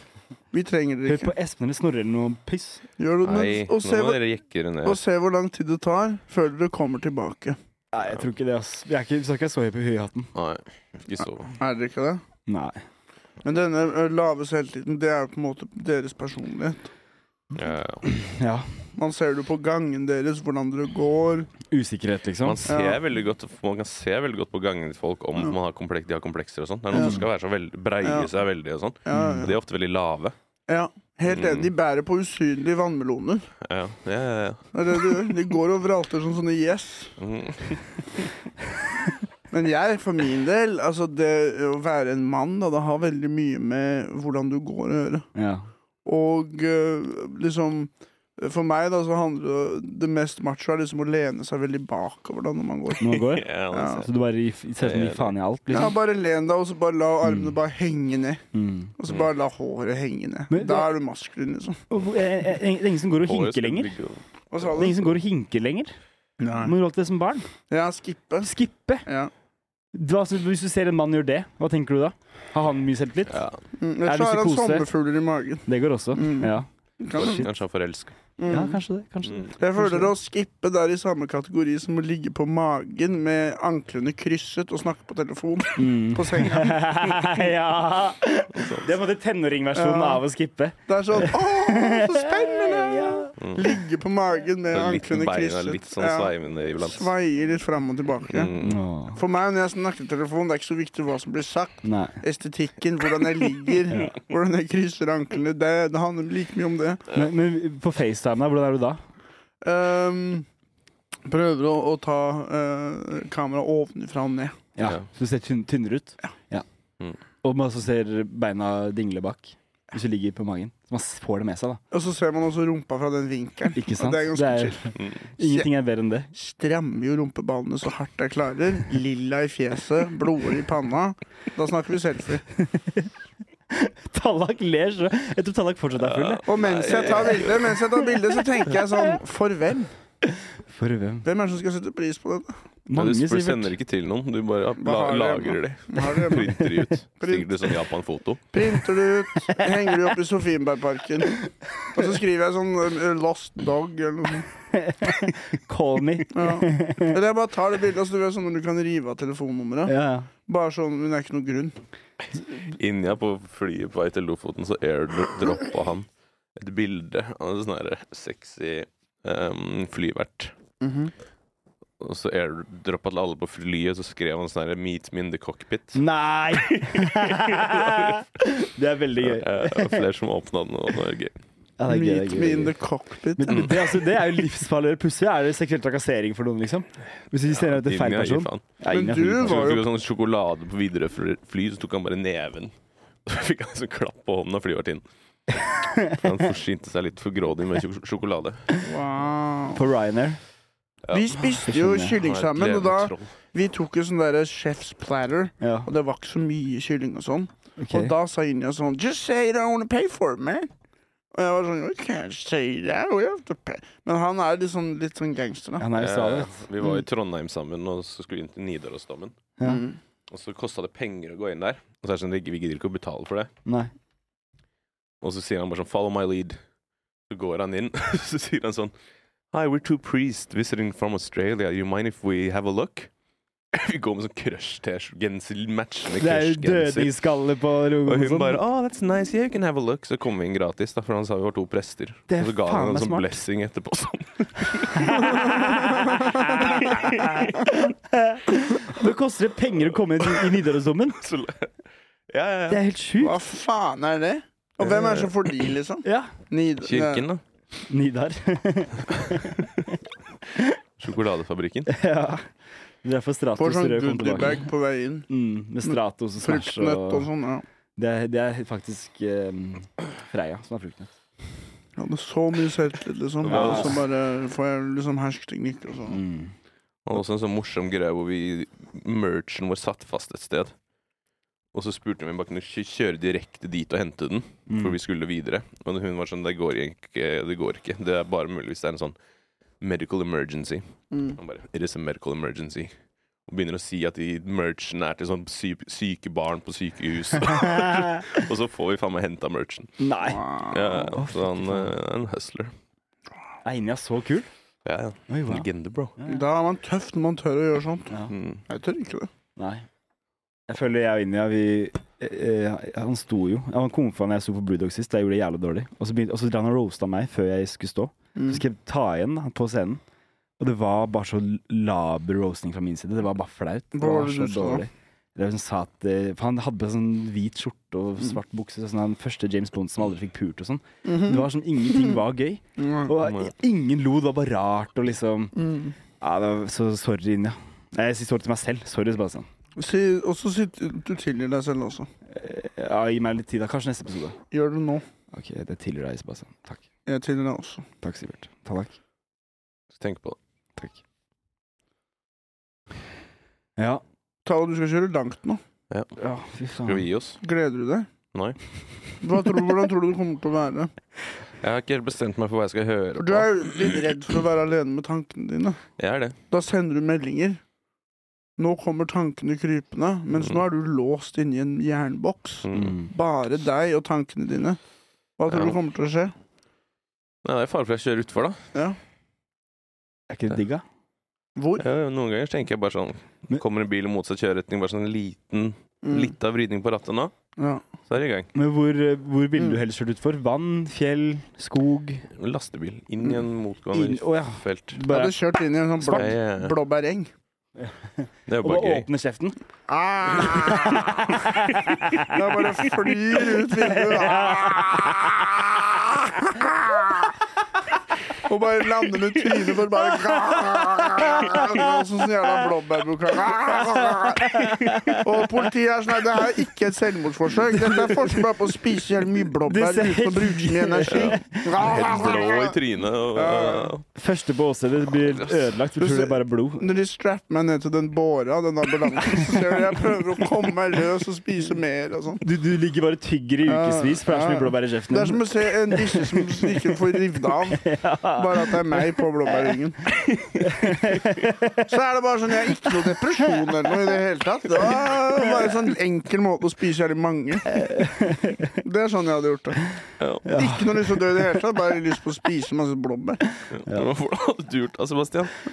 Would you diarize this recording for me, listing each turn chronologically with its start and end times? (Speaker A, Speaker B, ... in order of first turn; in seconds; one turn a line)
Speaker A: 0.5-1.3
Speaker B: 1.1-2.8
Speaker A: 3.0-4.2
Speaker C: 3.2-5.0
Speaker A: 4.8-7.6
Speaker B: 7.9-10.3
Speaker C: 10.3-11.5
Speaker A: 11.6-12.2
Speaker B: 12.5-12.8
Speaker A: 13.4-16.9
Speaker C: 17.5-18.0
Speaker B: 18.0-18.7
Speaker A: 19.0-21.5
Speaker B: 21.7-22.6
Speaker C: 22.4-30.3
Speaker A: 22.7-23.0
Speaker A: 26.9-27.2
Speaker B: 26.9-27.2
Speaker A: 28.0-28.3
Speaker A: 29.0-29.5
Speaker B: 29.1-29.5
Speaker A: 30.7-33.5
Speaker C: 31.3-31.7
Speaker C: 33.6-34.6
Speaker A: 34.7-37.1
Speaker C: 37.2-37.8
Speaker A: 39.5-45.2
Speaker B: 45.3-45.6
Speaker A: 46.0-54.0
Speaker B: 53.0-55.9
Speaker C: 53.1-54.0
Speaker C: 54.8-55.3
Speaker A: 55.7-58.4
Speaker B: 57.2-57.5
Speaker B: 58.5-58.9
Speaker A: 59.0-61.8
Speaker B: 60.5-60.9
Speaker B: 61.9-63.9
Speaker C: 63.2-64.2
Speaker A: 64.5-65.0
Speaker B: 64.7-65.9
Speaker A: 66.4-66.7
Speaker B: 66.6-67.5
Speaker A: 67.7-68.5
Speaker B: 68.4-69.0
Speaker A: 69.0-69.3
Speaker B: 69.9-73.4
Speaker C: 73.3-73.6
Speaker A: 73.8-77.4
Speaker B: 74.0-74.9
Speaker B: 75.7-77.5
Speaker C: 77.2-78.1
Speaker A: 78.4-78.8
Speaker B: 78.5-80.1
Speaker C: 79.2-79.5
Speaker A: 79.6-86.9
Speaker B: 85.8-93.3
Speaker C: 88.5-88.9
Speaker A: 89.7-90.2
Speaker A: 90.9-98.5
Speaker C: 93.4-93.7
Speaker C: 94.7-97.1
Speaker C: 98.3-98.8
Speaker B: 98.6-99.2
Speaker A: 99.2-107.0
Speaker B: 101.8-102.2
Speaker B: 103.9-104.2
Speaker B: 107.1-109.0
Speaker A: 109.6-110.5
Speaker A: 111.2-114.6
Speaker B: 114.8-116.6
Speaker B: 117.4-121.8
Speaker A: 121.9-125.7
Speaker B: 123.7-126.3
Speaker C: 125.0-125.2
Speaker A: 126.3-132.5
Speaker B: 132.6-133.1
Speaker B: 133.7-137.5
Speaker C: 135.9-137.8
Speaker A: 136.4-139.9
Speaker B: 138.0-139.1
Speaker B: 140.2-141.2
Speaker A: 141.2-142.5
Speaker B: 142.9-143.7
Speaker C: 142.9-148.4
Speaker A: 144.8-147.7
Speaker A: 148.5-154.5
Speaker B: 154.7-157.2
Speaker A: 156.3-159.9
Speaker B: 159.9-160.3
Speaker A: 160.4-161.7
Speaker C: 162.6-170.5
Speaker A: 170.8-171.1
Speaker C: 172.0-176.0
Speaker B: 175.9-180.1
Speaker C: 176.6-178.1
Speaker C: 179.2-181.4
Speaker B: 181.8-182.7
Speaker A: 181.9-183.8
Speaker B: 183.4-189.8
Speaker C: 183.5-184.0
Speaker C: 187.5-188.6
Speaker A: 188.9-189.8
Speaker C: 189.4-192.7
Speaker C: 193.2-195.0
Speaker B: 195.7-196.2
Speaker C: 196.1-198.7
Speaker A: 198.8-199.8
Speaker B: 199.7-200.4
Speaker C: 201.1-203.3
Speaker A: 201.1-210.7
Speaker B: 201.7-202.2
Speaker B: 205.6-205.9
Speaker B: 207.8-208.1
Speaker A: 211.3-215.8
Speaker B: 215.8-216.7
Speaker C: 215.9-219.4
Speaker A: 219.6-220.0
Speaker C: 220.3-223.5
Speaker B: 223.6-223.9
Speaker C: 225.2-226.6
Speaker C: 227.3-228.9
Speaker C: 229.5-233.1
Speaker C: 233.7-237.1
Speaker B: 236.2-238.6
Speaker C: 238.0-245.6
Speaker B: 242.3-243.3
Speaker B: 244.7-251.2
Speaker A: 245.7-246.8
Speaker C: 246.6-247.6
Speaker C: 250.2-250.5
Speaker C: 251.2-251.7
Speaker C: 252.3-252.8
Speaker B: 252.7-253.4
Speaker A: 253.2-257.2
Speaker C: 254.8-255.7
Speaker B: 256.0-256.3
Speaker C: 256.8-257.4
Speaker B: 257.9-259.7
Speaker C: 261.0-261.9
Speaker B: 261.9-262.5
Speaker B: 263.0-264.7
Speaker A: 263.6-265.3
Speaker B: 265.3-267.3
Speaker A: 265.8-267.6
Speaker B: 267.9-271.1
Speaker A: 272.0-276.2
Speaker C: 273.4-274.0
Speaker B: 273.5-274.0
Speaker B: 276.1-276.5
Speaker C: 277.1-280.7
Speaker C: 281.7-289.1
Speaker B: 284.7-285.0
Speaker C: 289.8-292.9
Speaker A: 291.1-291.4
Speaker C: 293.5-299.9
Speaker B: 297.4-298.4
Speaker B: 300.0-301.9
Speaker A: 300.2-301.1
Speaker C: 300.7-302.7
Speaker B: 303.6-304.5
Speaker C: 304.8-306.1
Speaker B: 305.3-305.6
Speaker A: 306.2-308.1
Speaker C: 308.3-308.6
Speaker A: 308.7-309.3
Speaker B: 309.6-309.9
Speaker B: 310.7-320.0
Speaker A: 318.3-318.6
Speaker B: 320.6-335.6
Speaker A: 323.9-324.8
Speaker A: 331.0-332.2
Speaker A: 332.8-333.1
Speaker C: 333.2-333.5
Speaker A: 335.6-335.9
Speaker B: 336.2-339.4
Speaker A: 339.8-342.1
Speaker B: 342.3-344.4
Speaker A: 344.5-345.0
Speaker B: 345.3-346.8
Speaker A: 347.1-347.9
Speaker B: 348.0-348.9
Speaker C: 349.9-350.4
Speaker B: 353.8-354.0
Speaker A: 354.4-355.6
Speaker B: 356.2-357.1
Speaker C: 356.8-357.4
Speaker A: 357.4-358.1
Speaker C: 358.3-358.6
Speaker A: 359.2-360.9
Speaker C: 361.6-364.1
Speaker A: 363.2-365.9
Speaker C: 366.0-366.4
Speaker A: 366.5-367.6
Speaker A: 368.6-374.8
Speaker C: 372.6-372.9
Speaker B: 372.7-373.1
Speaker A: 375.4-376.3
Speaker C: 375.5-375.8
Speaker C: 377.4-378.6
Speaker B: 380.3-380.8
Speaker A: 381.6-381.8
Speaker C: 381.8-387.3
Speaker A: 386.0-386.3
Speaker A: 387.6-387.8
Speaker C: 388.1-388.5
Speaker B: 388.5-392.3
Speaker C: 392.3-395.0
Speaker B: 393.9-395.4
Speaker A: 395.1-397.3
Speaker C: 396.0-396.8
Speaker B: 397.8-399.6
Speaker C: 398.5-399.1
Speaker A: 399.9-401.4
Speaker B: 400.5-402.3
Speaker A: 402.2-407.3
Speaker B: 403.8-405.4
Speaker A: 408.4-414.6
Speaker B: 410.4-411.8
Speaker B: 413.7-415.3
Speaker A: 415.1-422.8
Speaker B: 417.7-418.5
Speaker B: 419.6-422.0
Speaker C: 421.1-424.0
Speaker A: 423.3-423.9
Speaker B: 424.1-426.9
Speaker C: 425.2-425.6
Speaker A: 426.0-432.4
Speaker B: 432.4-439.2
Speaker A: 433.6-440.1
Speaker B: 440.6-441.9
Speaker A: 441.9-447.8
Speaker B: 442.8-443.9
Speaker B: 447.7-448.7
Speaker A: 448.8-449.8
Speaker C: 450.2-450.4
Speaker B: 450.4-451.6
Speaker A: 450.6-453.4
Speaker B: 453.6-454.1
Speaker C: 453.7-455.6